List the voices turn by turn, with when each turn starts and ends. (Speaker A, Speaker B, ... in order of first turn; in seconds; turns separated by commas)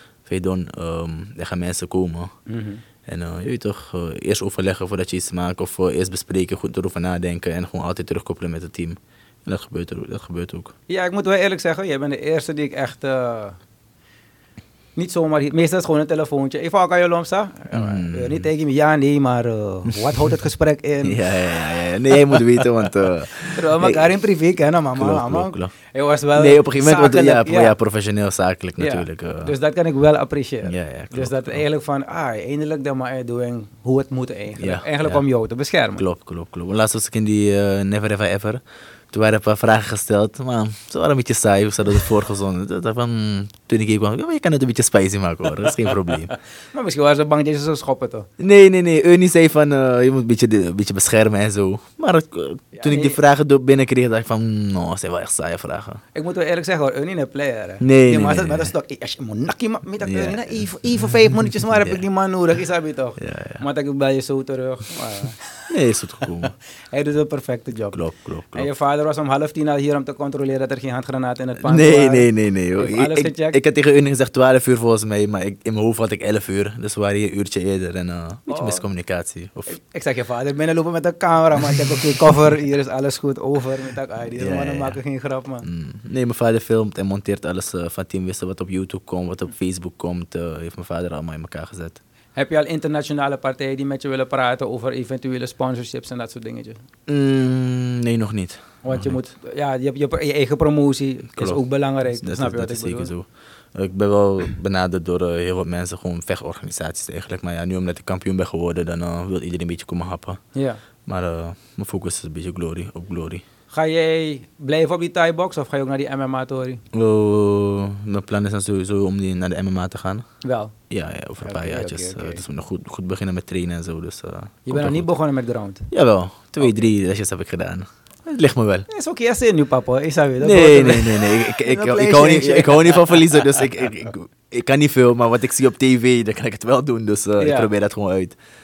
Speaker A: 0.2-2.3, Speaker B: 2.5-2.8, Speaker A: 3.0-10.7, Speaker B: 10.9-13.6, Speaker B: 14.9-21.2, Speaker A: 17.7-18.5, Speaker A: 21.0-24.1, Speaker B: 23.5-27.7, Speaker A: 24.9-25.7, Speaker A: 26.3-29.5, Speaker B: 28.8-36.0, Speaker A: 30.6-31.6, Speaker A: 34.6-35.2, Speaker A: 36.0-46.3, Speaker B: 46.7-48.3, Speaker A: 48.4-56.0, Speaker B: 52.7-53.2, Speaker B: 56.1-65.5, Speaker A: 57.8-58.7, Speaker A: 60.0-62.0, Speaker A: 63.2-63.6, Speaker A: 65.7-66.5, Speaker B: 66.9-73.6, Speaker A: 67.9-68.7, Speaker A: 71.6-79.7, Speaker B: 78.5-78.8, Speaker B: 79.7-85.7, Speaker A: 84.3-85.0, Speaker A: 85.6-92.0, Speaker B: 92.3-96.8, Speaker A: 97.1-99.2, Speaker B: 98.8-103.1, Speaker A: 101.3-110.4, Speaker B: 110.5-110.8, Speaker A: 111.0-113.4, Speaker B: 113.7-116.8, Speaker A: 116.9-120.2, Speaker B: 120.4-120.7, Speaker A: 120.9-125.1, Speaker B: 121.4-122.4, Speaker B: 124.7-125.9, Speaker A: 125.9-128.9, Speaker B: 128.9-133.5, Speaker A: 130.4-138.4, Speaker B: 137.4-137.7